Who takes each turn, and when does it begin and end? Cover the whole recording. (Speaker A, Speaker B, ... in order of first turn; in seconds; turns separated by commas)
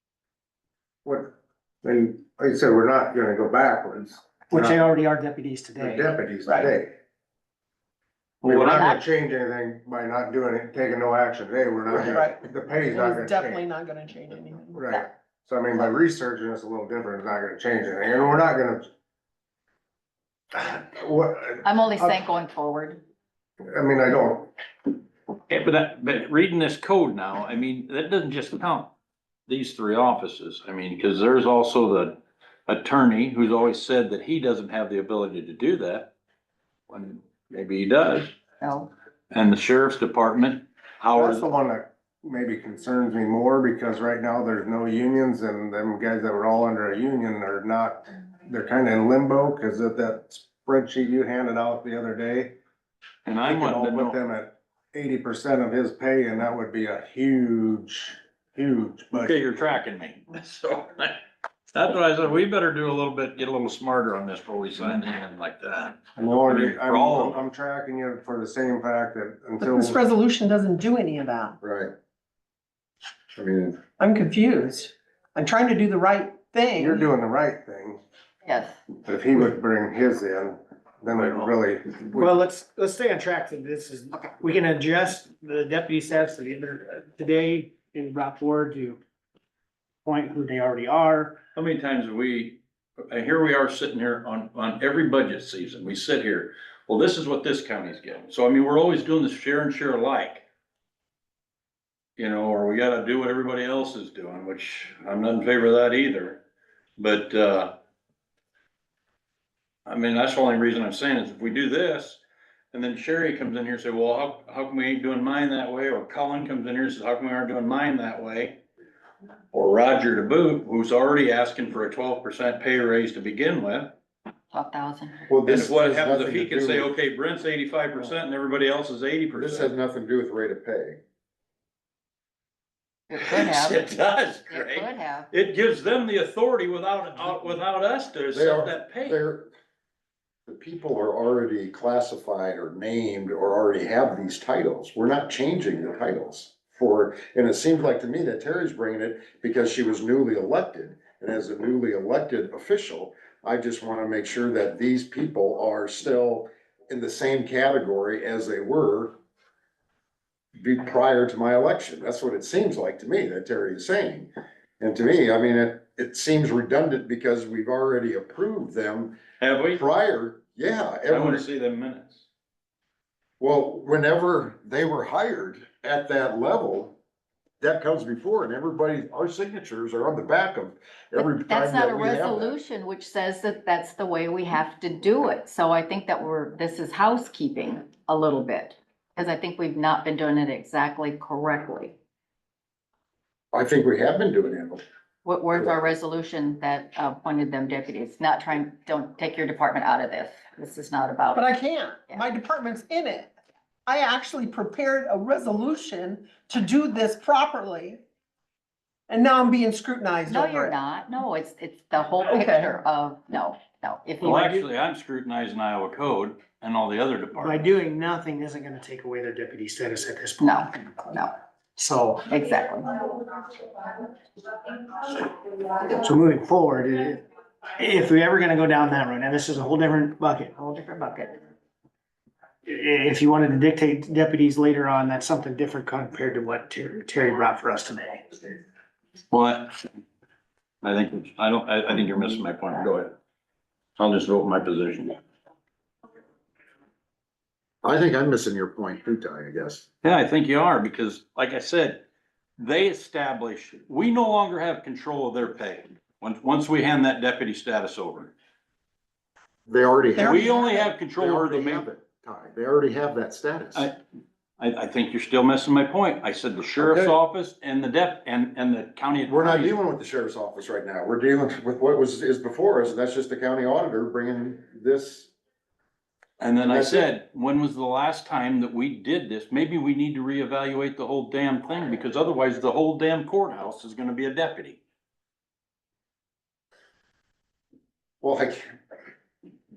Speaker A: 1.0-4.8, Speaker B: 4.5-6.7, Speaker A: 5.8-6.9, Speaker A: 8.4-13.7, Speaker C: 8.4-8.9, Speaker D: 11.9-14.8, Speaker A: 14.7-18.9, Speaker A: 20.5-22.2, Speaker E: 21.6-23.0, Speaker A: 23.6-24.5, Speaker C: 25.5-28.9, Speaker C: 29.5-36.1, Speaker C: 36.9-38.3, Speaker E: 38.6-38.9, Speaker C: 39.3-41.5, Speaker A: 41.1-52.5, Speaker C: 53.2-54.2, Speaker A: 53.5-59.5, Speaker C: 59.1-61.2, Speaker C: 61.7-67.4, Speaker A: 66.2-70.0, Speaker D: 69.6-71.6, Speaker F: 71.6-71.9, Speaker F: 73.3-73.8, Speaker D: 74.0-77.1, Speaker A: 76.7-78.0, Speaker E: 78.4-78.8, Speaker A: 79.0-82.3, Speaker B: 82.1-89.0, Speaker B: 90.0-91.4, Speaker C: 91.5-100.4, Speaker C: 102.2-106.4, Speaker C: 107.0-107.8, Speaker C: 109.8-112.2, Speaker C: 112.7-118.6, Speaker C: 119.5-124.0, Speaker E: 124.5-125.3, Speaker F: 125.3-126.9, Speaker C: 125.5-129.7, Speaker F: 129.3-131.0, Speaker E: 133.1-133.9, Speaker C: 133.2-139.2, Speaker E: 134.5-135.3, Speaker F: 138.3-139.5, Speaker F: 140.5-159.2, Speaker F: 160.6-169.2, Speaker C: 169.4-169.8, Speaker F: 169.7-171.4, Speaker C: 171.1-172.2, Speaker F: 173.4-176.9, Speaker F: 177.6-182.6, Speaker E: 181.2-191.9, Speaker F: 193.5-194.8, Speaker E: 195.2-201.5, Speaker F: 195.5-195.8, Speaker D: 201.4-203.3, Speaker D: 203.8-208.0, Speaker D: 209.1-210.7, Speaker E: 210.2-214.3, Speaker D: 212.2-212.7, Speaker B: 214.2-214.7, Speaker C: 214.2-217.7, Speaker B: 217.4-221.0, Speaker E: 220.4-221.3, Speaker B: 221.8-222.4, Speaker E: 222.3-222.9, Speaker B: 225.7-227.2, Speaker B: 227.8-231.3, Speaker E: 230.7-231.2, Speaker B: 232.7-238.6, Speaker C: 239.3-239.7, Speaker C: 240.8-243.1, Speaker C: 244.0-245.2, Speaker F: 247.8-249.8, Speaker C: 250.0-252.0, Speaker C: 252.6-258.3, Speaker F: 259.7-260.5, Speaker D: 260.2-260.9, Speaker C: 260.2-261.9, Speaker F: 261.1-263.9, Speaker C: 264.6-269.8, Speaker F: 266.8-267.1, Speaker F: 269.3-275.3, Speaker C: 276.4-284.8, Speaker F: 276.6-277.1, Speaker F: 288.2-288.7